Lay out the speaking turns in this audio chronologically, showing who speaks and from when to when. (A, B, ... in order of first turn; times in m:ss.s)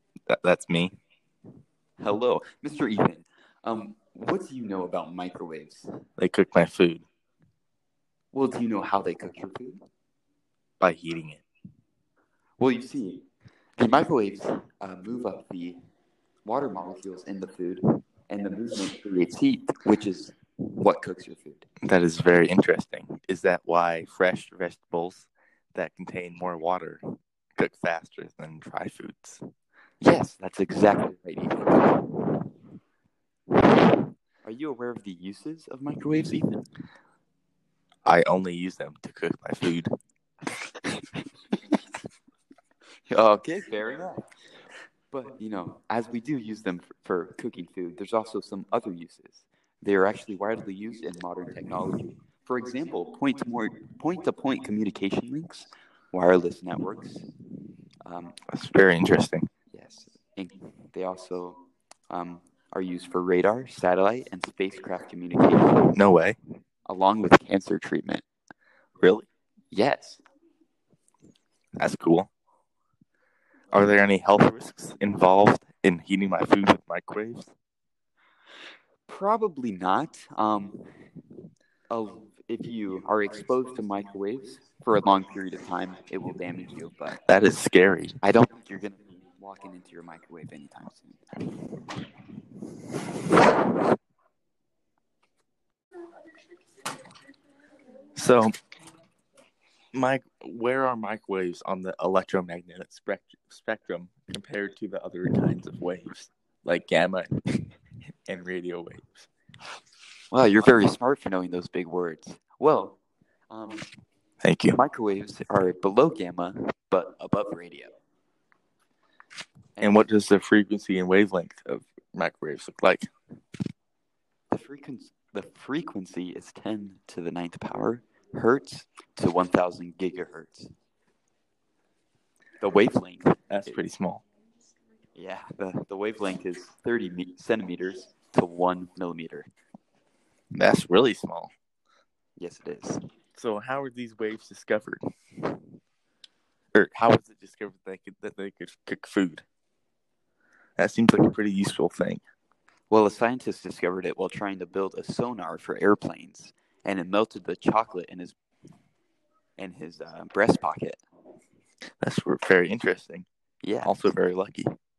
0:00.3-0:00.9 A
0:02.0-0:05.9 B
0:06.2-0:07.0 A
0:08.3-0:09.8 B
0:10.8-0:11.4 A
0:12.6-0:13.2 B
0:13.8-0:15.8 B
0:16.4-0:21.7 B
0:21.8-0:29.4 A
0:30.0-0:32.5 B
0:33.6-0:36.6 B
0:38.0-0:39.9 A
0:43.1-0:44.2 B
0:45.1-0:57.2 B
0:58.0-0:58.4 B
0:58.5-0:59.5 A
0:59.7-1:05.9 B
1:05.9-1:06.4 A
1:06.8-1:08.2 B
1:09.0-1:09.3 A
1:09.7-1:10.2 B
1:11.8-1:12.3 A
1:13.7-1:17.5 A
1:19.1-1:20.9 B
1:21.9-1:27.2 B
1:27.2-1:28.2 A
1:28.2-1:31.5 B
1:38.1-1:38.5 A
1:39.9-1:47.6 A
1:48.3-1:49.3 A
1:50.3-1:53.0 B
1:53.5-1:53.8 B
1:54.4-1:54.8 A
1:54.7-1:57.9 B
1:59.8-2:00.0 B
1:59.8-2:03.0 A
2:04.5-2:10.7 B
2:12.6-2:13.8 B
2:13.5-2:14.2 A
2:15.2-2:19.5 B
2:20.5-2:21.5 A
2:22.4-2:23.0 B
2:23.4-2:25.0 A
2:26.7-2:29.4 A
2:30.8-2:32.2 A
2:32.9-2:38.3 B
2:39.6-2:41.0 B
2:42.0-2:43.2 A
2:43.6-2:43.9 B
2:43.8-2:44.7 A